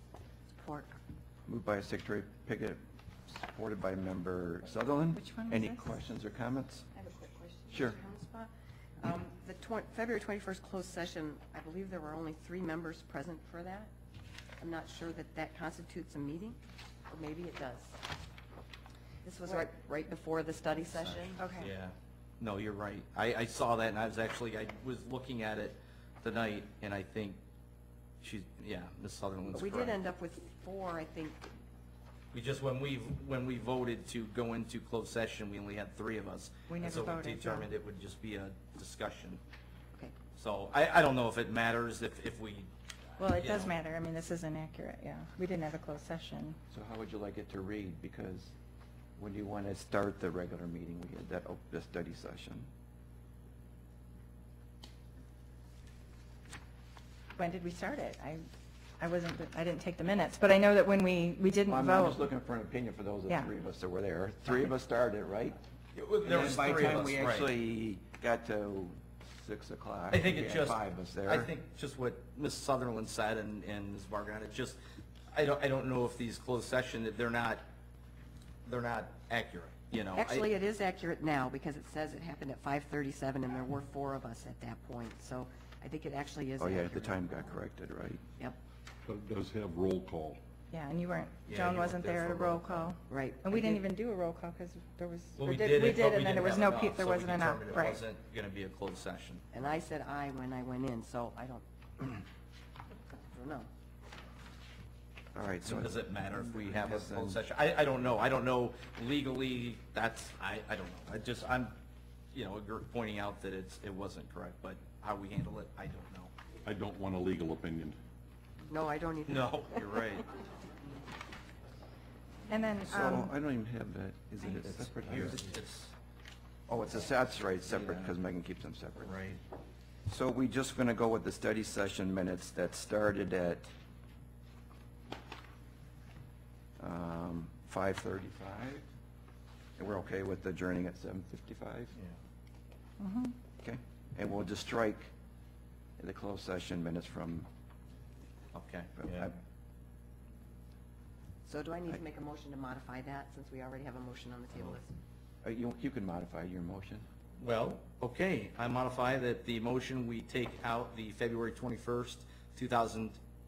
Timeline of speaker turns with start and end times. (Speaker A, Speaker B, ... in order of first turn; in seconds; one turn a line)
Speaker A: 0.6-1.0
Speaker B: 1.5-6.8
Speaker C: 5.1-5.9
Speaker A: 6.9-13.9
Speaker B: 7.7-8.0
Speaker A: 14.6-18.0
Speaker A: 19.2-21.4
Speaker C: 21.4-21.7
Speaker D: 21.6-27.4
Speaker D: 28.2-30.0
Speaker A: 29.5-31.5
Speaker D: 32.3-39.4
Speaker C: 36.7-37.7
Speaker D: 40.3-42.7
Speaker C: 43.2-46.6
Speaker D: 43.3-43.7
Speaker B: 46.7-48.5
Speaker B: 49.2-52.7
Speaker C: 57.4-58.5
Speaker C: 59.0-62.3
Speaker B: 61.7-65.6
Speaker D: 65.9-67.5
Speaker B: 66.2-71.5
Speaker D: 70.1-74.8
Speaker D: 75.3-77.6
Speaker D: 78.6-80.5
Speaker A: 80.1-87.2
Speaker B: 86.6-88.2
Speaker E: 89.0-90.4
Speaker C: 90.7-98.0
Speaker D: 91.5-92.9
Speaker A: 93.1-93.8
Speaker D: 95.4-99.4
Speaker A: 99.5-101.6
Speaker A: 103.3-103.7
Speaker B: 105.3-107.4
Speaker D: 105.6-111.7
Speaker D: 112.3-116.3
Speaker E: 116.6-118.0
Speaker A: 118.7-120.0
Speaker D: 119.3-120.2
Speaker C: 122.5-123.3
Speaker B: 122.9-125.5
Speaker D: 124.4-125.9
Speaker B: 126.7-129.1
Speaker D: 127.7-128.2
Speaker D: 129.0-129.4
Speaker B: 130.1-133.7
Speaker B: 136.8-138.8
Speaker B: 139.8-141.9
Speaker C: 143.0-143.4
Speaker B: 143.6-145.1
Speaker B: 146.0-147.5
Speaker D: 148.5-149.3
Speaker B: 149.0-149.3
Speaker A: 151.4-154.9
Speaker B: 155.4-157.1
Speaker D: 157.4-163.2